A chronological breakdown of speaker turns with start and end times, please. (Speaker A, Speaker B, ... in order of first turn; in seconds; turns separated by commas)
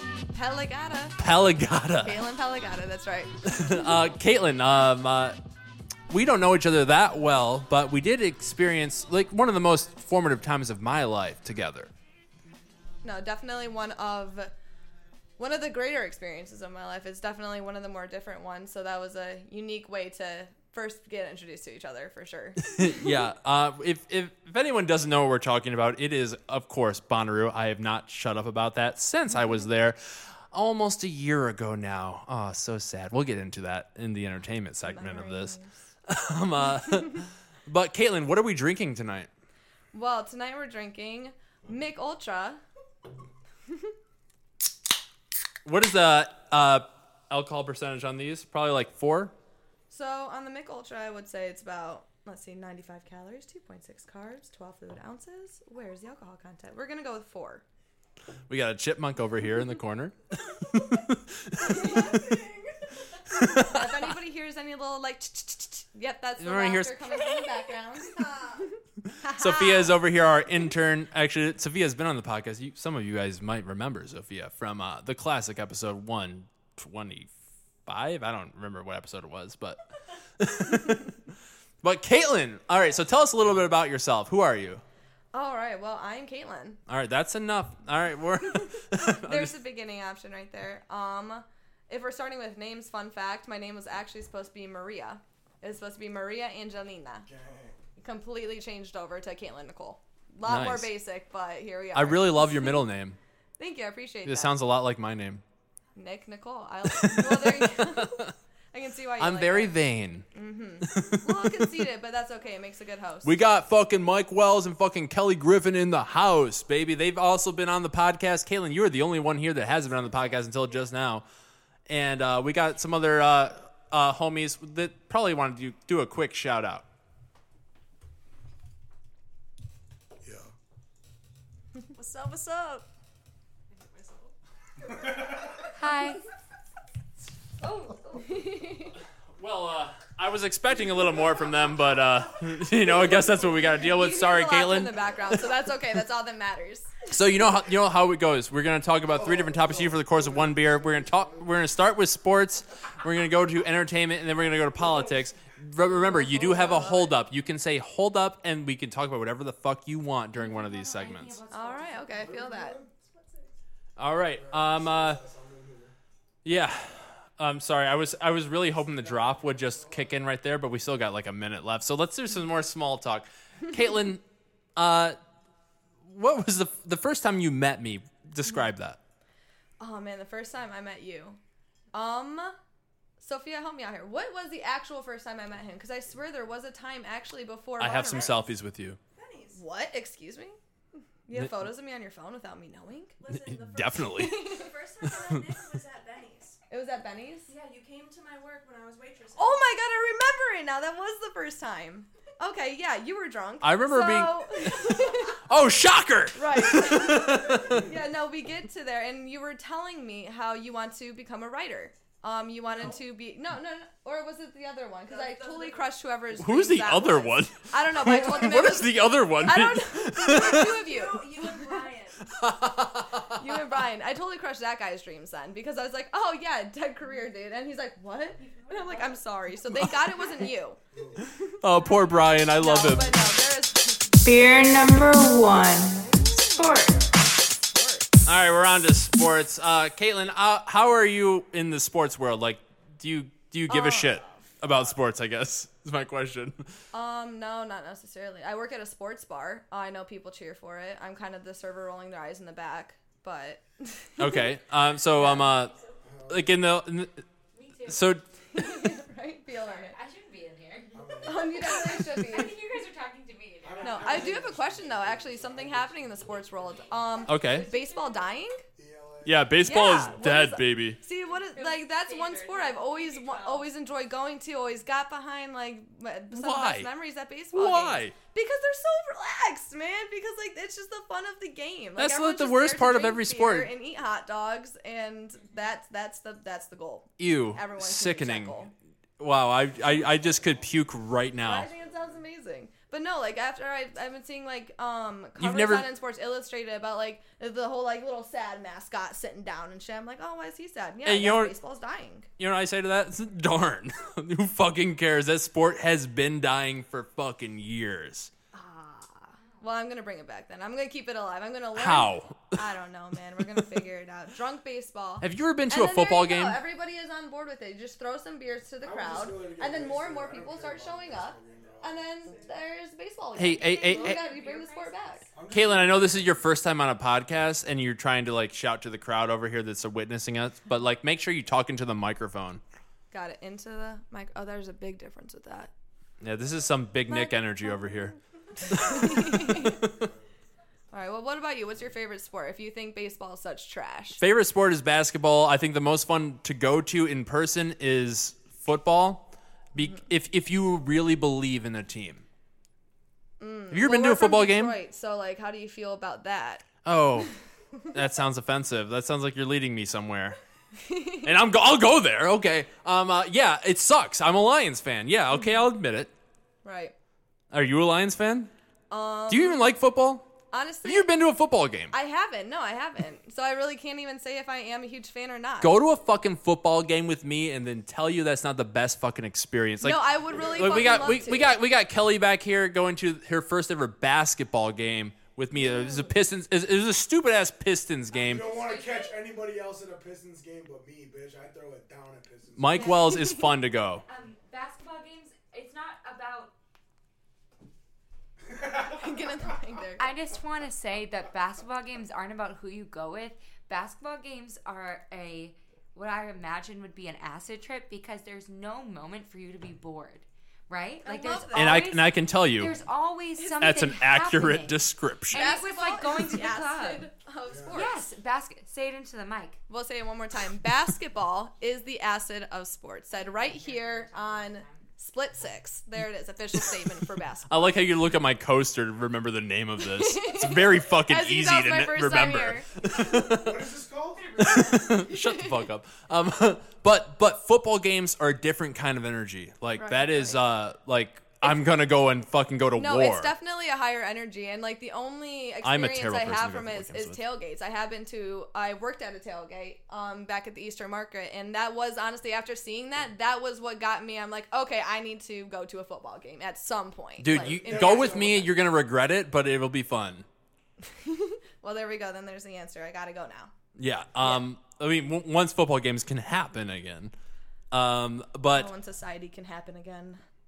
Speaker A: 0.3-1.2, Speaker B: 1.2-2.2, Speaker A: 2.0-3.3, Speaker B: 3.4-5.4, Speaker B: 6.1-11.9, Speaker A: 13.0-14.5, Speaker A: 15.4-23.1, Speaker B: 22.7-30.0, Speaker B: 30.5-39.3, Speaker A: 34.8-35.7, Speaker A: 36.9-37.2, Speaker A: 39.9-42.6, Speaker B: 45.6-49.3, Speaker A: 49.9-57.6, Speaker B: 58.5-60.1, Speaker B: 60.7-62.2, Speaker A: 61.6-62.3, Speaker B: 63.3-64.1, Speaker A: 63.5-69.9, Speaker B: 66.4-67.2, Speaker B: 69.0-77.3, Speaker B: 77.8-79.8, Speaker B: 80.4-81.2, Speaker B: 81.8-84.8, Speaker A: 85.3-86.8, Speaker B: 86.9-89.5, Speaker A: 88.5-97.3, Speaker C: 97.2-97.8, Speaker A: 98.0-102.8, Speaker B: 100.4-100.9, Speaker B: 101.9-103.2, Speaker A: 103.6-104.5, Speaker B: 104.2-105.4, Speaker A: 105.9-109.8, Speaker B: 106.8-108.3, Speaker B: 109.2-110.2, Speaker A: 110.3-113.4, Speaker B: 110.8-111.7, Speaker B: 113.2-121.2, Speaker B: 121.9-126.8, Speaker C: 130.2-130.5, Speaker D: 131.9-132.8, Speaker D: 133.7-134.3, Speaker C: 135.1-135.4, Speaker E: 135.7-136.2, Speaker E: 137.6-138.4, Speaker A: 138.2-138.9, Speaker B: 139.4-144.9, Speaker C: 142.9-143.7, Speaker A: 143.8-146.9, Speaker B: 147.1-161.4, Speaker C: 149.1-151.6, Speaker C: 154.7-155.3, Speaker A: 156.1-157.1, Speaker E: 160.3-162.3, Speaker A: 161.5-162.8, Speaker C: 162.1-162.9, Speaker B: 164.0-165.2, Speaker C: 164.3-165.9, Speaker B: 166.4-174.2, Speaker C: 168.6-170.2, Speaker B: 174.8-175.2, Speaker B: 176.0-179.0, Speaker A: 179.8-181.4, Speaker A: 181.9-182.6, Speaker A: 183.2-188.5, Speaker B: 187.8-189.0, Speaker D: 189.1-189.6, Speaker A: 189.5-190.6, Speaker A: 191.2-193.2, Speaker D: 193.2-196.6, Speaker B: 193.3-194.4, Speaker A: 194.2-194.7, Speaker A: 196.7-197.5, Speaker D: 197.5-199.6, Speaker A: 199.3-205.4, Speaker B: 203.6-207.9, Speaker A: 206.3-221.5, Speaker D: 215.1-215.8, Speaker B: 216.3-220.8, Speaker D: 220.2-222.2, Speaker B: 222.2-223.4, Speaker A: 223.3-231.5, Speaker D: 228.7-229.2, Speaker C: 230.9-231.2, Speaker B: 231.5-233.2, Speaker A: 232.5-234.2, Speaker F: 234.2-237.1, Speaker A: 236.1-238.1, Speaker B: 238.2-246.6, Speaker A: 243.7-244.5, Speaker A: 246.9-254.5, Speaker B: 254.2-255.7, Speaker A: 255.2-255.5, Speaker C: 256.0-256.5, Speaker B: 256.3-257.2, Speaker E: 257.5-258.9, Speaker B: 257.9-258.2, Speaker A: 258.5-260.0, Speaker E: 259.6-264.2, Speaker C: 260.9-261.6, Speaker A: 261.2-262.6, Speaker C: 263.6-267.1, Speaker A: 263.8-268.6, Speaker E: 267.2-268.4, Speaker B: 267.3-267.7, Speaker C: 268.8-269.5, Speaker B: 269.2-271.0, Speaker A: 269.6-288.7, Speaker E: 271.3-273.7, Speaker B: 276.3-276.9, Speaker B: 277.5-278.1, Speaker B: 282.0-283.7, Speaker B: 287.2-288.6, Speaker B: 289.2-291.7, Speaker C: 289.7-290.9, Speaker A: 291.4-302.3, Speaker C: 291.8-292.2, Speaker B: 295.4-295.8, Speaker B: 301.0-301.5, Speaker B: 302.4-308.3, Speaker A: 308.5-325.2, Speaker B: 311.7-312.6, Speaker B: 315.2-316.6, Speaker C: 318.8-322.3, Speaker B: 323.4-324.2, Speaker E: 323.5-325.3, Speaker C: 325.3-326.5, Speaker B: 325.5-332.6, Speaker A: 333.1-335.7, Speaker B: 336.2-338.2, Speaker A: 337.1-337.3, Speaker A: 338.6-339.8, Speaker B: 338.7-340.0, Speaker A: 340.9-344.2, Speaker B: 344.2-352.2, Speaker A: 353.4-356.7, Speaker B: 353.7-354.8, Speaker B: 356.8-357.3, Speaker B: 357.9-360.4, Speaker A: 360.8-361.3, Speaker B: 361.2-366.1, Speaker A: 366.6-366.9, Speaker B: 367.5-368.5, Speaker A: 368.9-369.6, Speaker B: 369.3-370.3, Speaker A: 370.5-371.1, Speaker B: 370.8-371.9, Speaker A: 371.9-375.8, Speaker B: 375.6-388.6, Speaker A: 379.8-381.6, Speaker C: 380.3-381.1, Speaker A: 385.6-386.1, Speaker E: 388.1-389.2, Speaker C: 388.2-392.9, Speaker B: 392.6-394.0, Speaker A: 392.8-393.5, Speaker E: 394.1-396.5, Speaker C: 398.5-399.1, Speaker A: 398.9-400.1, Speaker E: 399.9-417.1, Speaker A: 411.0-412.0, Speaker B: 411.5-412.7, Speaker B: 413.6-415.4, Speaker A: 415.3-418.1, Speaker C: 417.5-417.9, Speaker E: 417.7-419.6, Speaker A: 419.7-427.8, Speaker E: 423.1-424.9, Speaker B: 427.5-433.5, Speaker A: 429.8-432.7, Speaker C: 433.1-434.9, Speaker B: 434.4-443.3, Speaker A: 435.1-435.5, Speaker A: 439.8-440.4, Speaker A: 442.8-458.5, Speaker B: 445.6-447.2, Speaker B: 457.2-460.2, Speaker C: 457.3-458.5, Speaker A: 460.9-463.5, Speaker B: 463.8-467.1, Speaker B: 467.7-468.7, Speaker A: 468.5-470.2